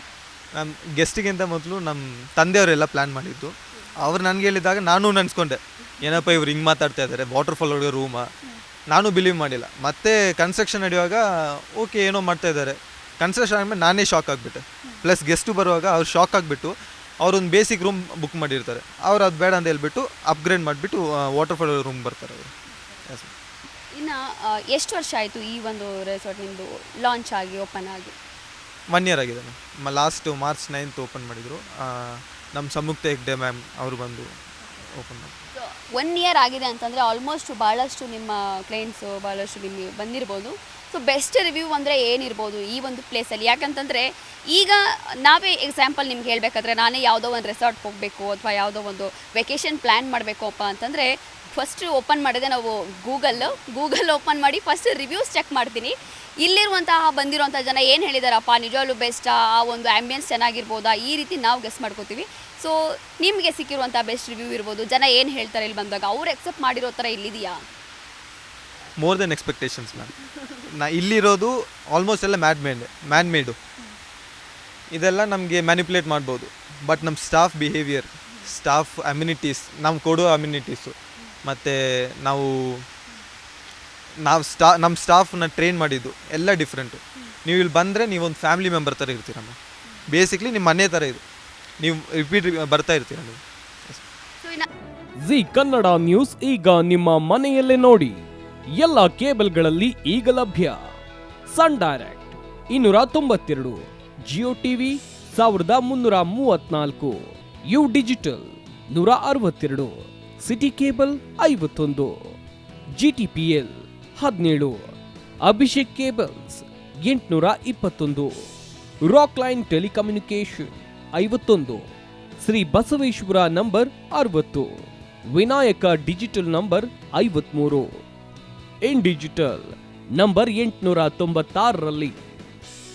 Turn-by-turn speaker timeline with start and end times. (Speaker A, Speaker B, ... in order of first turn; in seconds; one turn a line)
Speaker A: 0.6-8.2
Speaker A: 8.9-22.5
Speaker A: 23.1-23.3
Speaker B: 23.9-28.1
Speaker A: 28.9-34.3
Speaker A: 34.8-35.4
Speaker B: 35.5-67.6
Speaker A: 69.0-70.1
Speaker A: 70.6-73.5
Speaker A: 74.9-82.8
Speaker A: 84.2-89.5
Speaker A: 90.1-91.2
Speaker A: 91.8-94.0
Speaker C: 95.2-98.2
Speaker C: 98.8-100.8
Speaker C: 101.5-112.2
Speaker C: 113.0-114.8
Speaker C: 115.4-118.5
Speaker C: 119.0-121.9
Speaker C: 122.4-128.0
Speaker C: 128.8-132.2